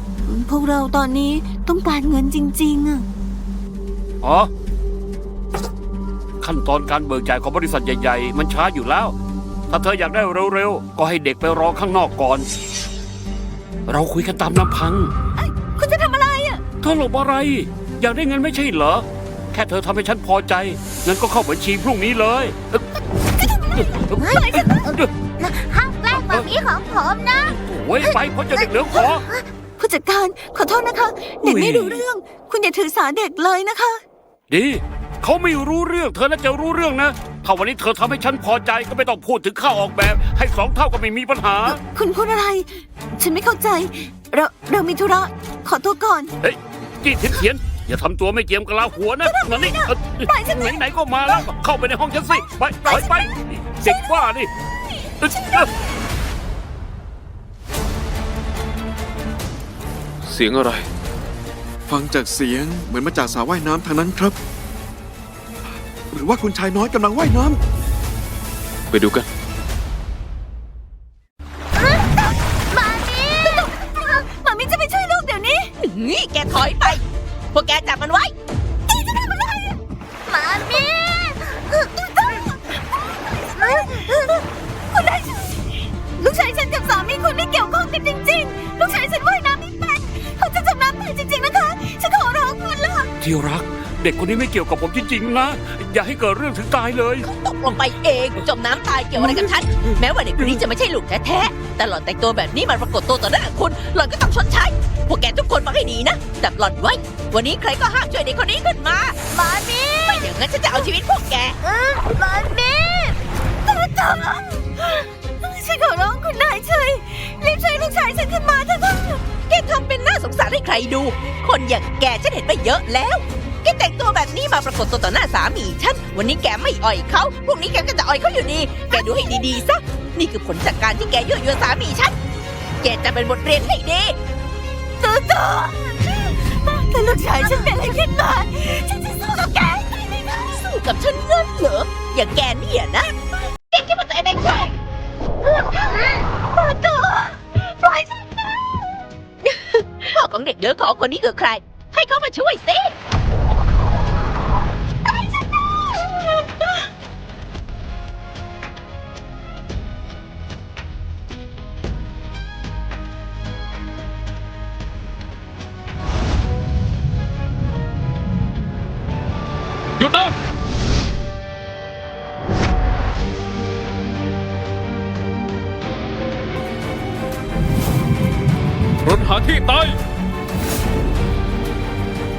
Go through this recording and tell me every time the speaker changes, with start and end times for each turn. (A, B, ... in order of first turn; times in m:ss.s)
0:00.2-0:03.1 A
0:04.2-0:04.5 B
0:06.4-0:09.1 B
0:09.7-0:12.5 B
0:13.9-0:15.1 B
0:15.4-0:16.6 A
0:16.8-0:22.9 B
0:23.4-0:24.8 A
0:23.7-0:25.1 B
0:24.2-0:29.4 C
0:26.1-0:26.5 B
0:27.4-0:29.2 B
0:29.8-0:34.0 A
0:31.4-0:32.0 B
0:34.5-0:41.8 B
0:41.6-0:46.4 A
0:46.4-0:54.5 B
0:49.2-0:51.5 A
0:52.8-0:53.3 A
0:53.8-0:54.1 A
0:55.2-0:55.7 B
1:00.2-1:00.9 D
1:01.9-1:04.4 E
1:06.1-1:07.6 E
1:08.9-1:09.3 D
1:11.8-1:12.1 C
1:12.7-1:13.7 C
1:13.4-1:15.7 A
1:15.8-1:17.0 F
1:17.5-1:18.3 F
1:18.9-1:19.8 A
1:20.3-1:22.0 C
1:22.0-1:33.1 A
1:23.6-1:24.1 C
1:33.2-1:37.3 B
1:37.2-1:49.2 F
1:39.1-1:40.6 B
1:49.3-1:50.9 C
1:50.1-1:51.6 F
1:51.6-1:53.2 C
1:53.6-1:59.3 A
1:59.4-2:12.2 F
2:12.8-2:14.2 F
2:15.0-2:20.4 A
2:17.2-2:18.0 F
2:20.4-2:23.1 F
2:23.7-2:24.7 F
2:26.7-2:27.1 A
2:30.1-2:32.9 F
2:50.0-2:50.3 D
2:59.0-3:00.0 D